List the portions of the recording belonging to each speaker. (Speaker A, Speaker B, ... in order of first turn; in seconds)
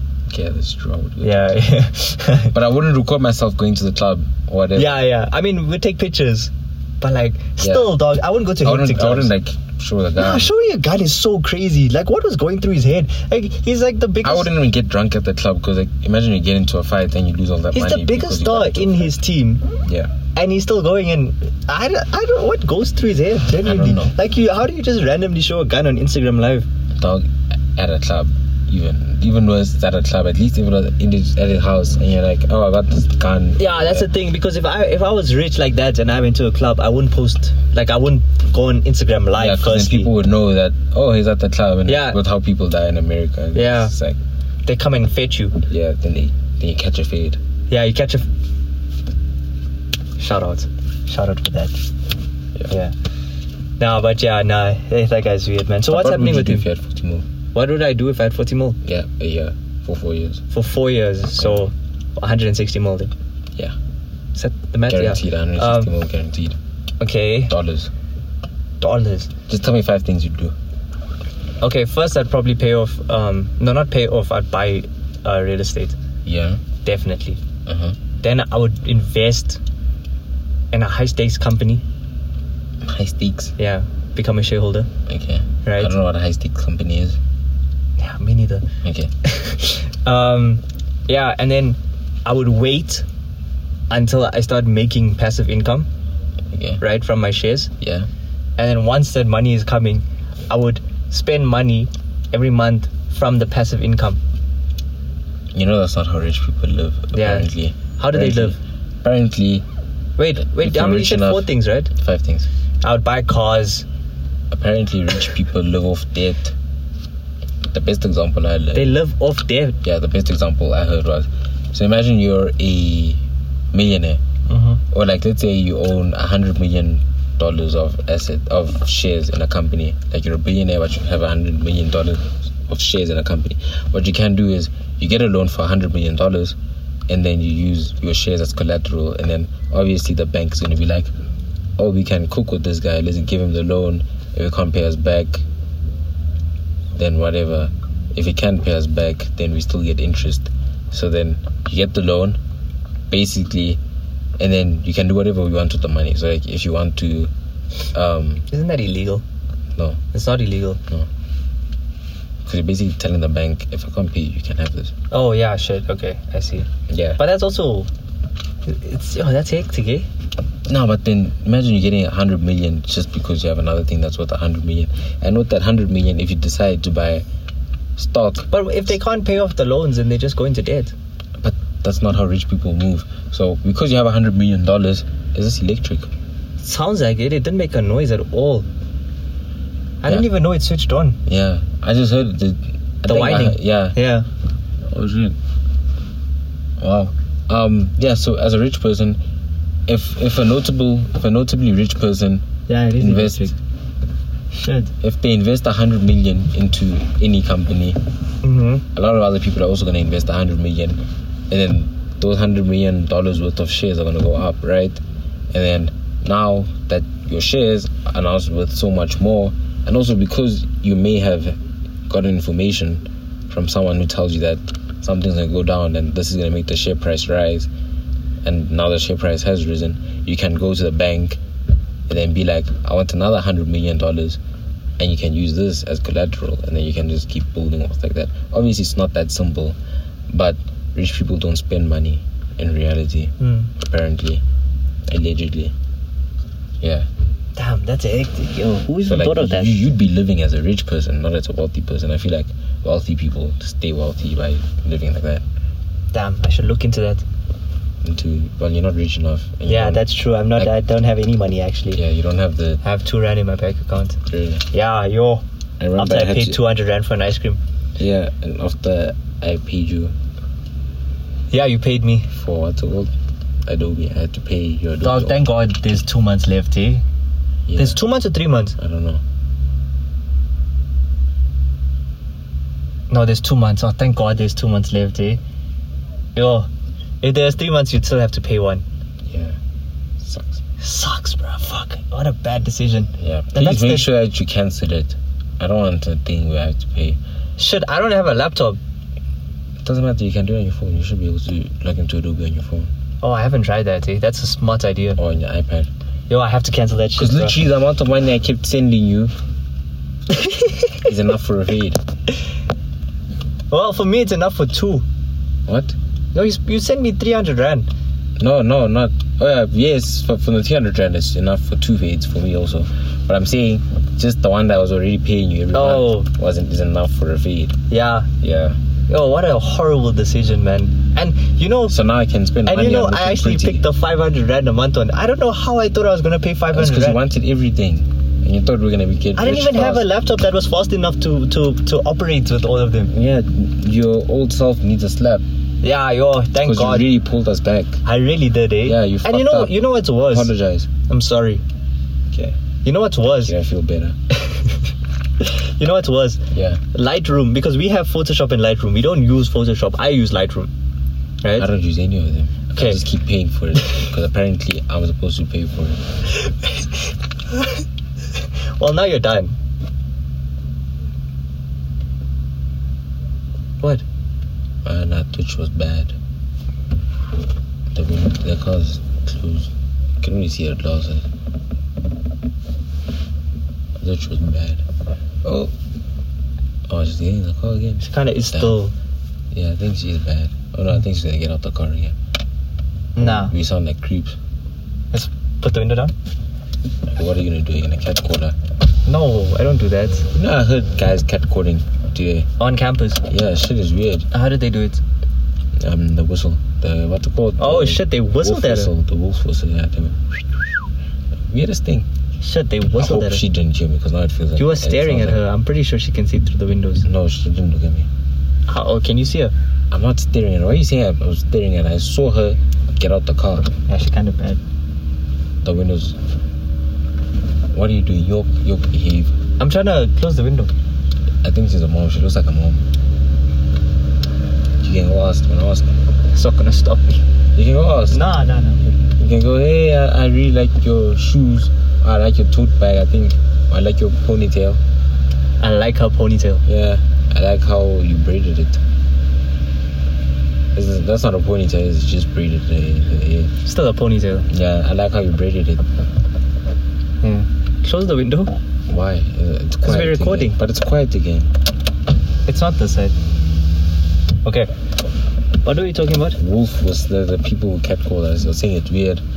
Speaker A: 0.3-1.6, 2.5-5.0, 7.6-8.0, 8.6-10.5, 14.2-19.1, 19.8-20.1, 23.6-24.1, 26.9-34.1, 39.3-44.2, 45.7-47.4, 55.9-57.2, 58.8-60.4, 61.4-61.6, 64.9-66.6, 67.5-67.9, 69.5-70.5, 76.2-76.6, 77.7-78.0, 82.8-83.5, 85.1-87.2, 88.8-89.1, 96.5-96.8, 97.8-98.1, 105.5-109.7, 110.4-112.5, 114.5-116.5, 117.6-119.0, 119.8-123.2, 123.7-124.2, 124.9-136.6, 137.1-141.1, 141.8-145.4, 146.9-152.4, 153.1-153.8, 154.4-157.3, 157.9-158.4, 159.7-160.0, 162.4-164.9, 166.9-167.2, 170.7-177.2, 178.0-178.5, 181.4-186.1, 191.2-194.0, 194.9-195.4, 196.8-199.2, 199.9-202.4, 203.0-203.5, 205.0-208.0, 208.9-215.0, 215.5-227.7, 228.4-231.4, 232.1-234.4, 235.0-239.8, 240.3-244.4, 245.1-245.7, 246.8-247.1, 249.0-255.4, 258.0-260.7, 261.9-262.8, 264.2-264.6, 265.8-266.6, 268.0-270.1, 272.3-273.1, 273.6-275.4, 277.7-278.0, 278.8-279.2, 289.2-289.6, 290.2-290.6, 293.2-297.2, 299.8-302.9, 305.1-305.9, 307.1-309.3, 311.0-312.0, 315.7-315.9, 318.4-327.8, 328.4-328.8, 331.9-333.8, 336.7-340.1, 343.1-345.4, 346.6-348.0, 348.8-350.9, 352.3-352.6, 353.4-354.1, 356.5-356.8, 361.6-366.1, 374.8-376.1, 377.9-381.3, 384.0-384.8, 385.4-385.7, 386.9-388.8, 389.5-392.1, 393.2-394.4, 397.1-398.6, 400.3-402.5, 403.2-404.3, 405.8-410.7, 411.5-412.1, 412.9-415.4, 417.0-418.1, 419.9-423.7, 425.6-426.2, 427.7-429.3, 431.4-432.8, 434.8-435.9, 437.5-438.2, 439.2-444.8, 446.6-448.8, 450.7-453.5, 454.5-455.8, 458.9-461.5, 466.4-469.2
Speaker B: 1.2-2.5, 4.8-9.3, 10.2-14.5, 17.7-19.6, 20.4-26.6, 33.6-40.1, 41.9-42.2, 43.5-43.9, 44.6-45.6, 47.7-48.3, 50.2-51.8, 53.8-56.6, 57.5-58.8, 60.5-63.1, 64.3-65.9, 67.0-67.5, 68.8-69.3, 71.6-76.0, 76.8-77.4, 78.2-79.6, 80.7-81.8, 83.6-84.9, 85.6-85.9, 88.0-88.7, 89.2-93.0, 93.9-95.9, 96.8-97.7, 98.6-104.2, 107.1-108.5, 110.2-111.9, 112.8-113.8, 118.7-119.8, 124.5-124.8, 158.5-159.2, 160.1-160.8, 165.1-167.9, 168.7-170.1, 178.5-180.9, 186.6-188.7, 190.0-191.2, 193.1-194.3, 202.7-203.5, 204.5-204.9, 208.4-208.8, 243.4-243.7, 247.6-249.8, 256.1-257.2, 259.7-262.0, 262.8-264.2, 264.7-265.4, 266.0-267.6, 271.5-272.3, 275.0-277.0, 277.8-278.8, 283.1-285.4, 286.4-286.7, 287.2-288.8, 290.8-294.1, 297.6-298.8, 303.2-305.2, 306.3-307.6, 310.3-311.0, 313.7-315.0, 316.3-317.9, 325.7-326.3, 327.9-328.3, 329.1-332.0, 332.6-337.2, 339.4-343.1, 345.8-347.1, 348.0-350.5, 351.1-351.6, 352.8-353.5, 354.4-354.8, 355.4-356.4, 356.9-360.7, 361.4-361.7, 366.3-366.9, 367.5-367.8, 368.8-369.6, 388.0-388.9, 393.1-393.5, 395.1-396.1, 399.1-400.3, 402.6-403.2, 404.3-405.0, 407.6-408.9, 412.4-413.4, 414.6-417.1, 418.7-419.5, 423.9-424.6, 429.6-430.7, 436.3-437.2, 438.1-438.9, 445.6-446.6, 453.6-454.5, 457.2-458.5, 459.8-460.6, 462.5-463.1, 464.4-464.7, 465.6-466.4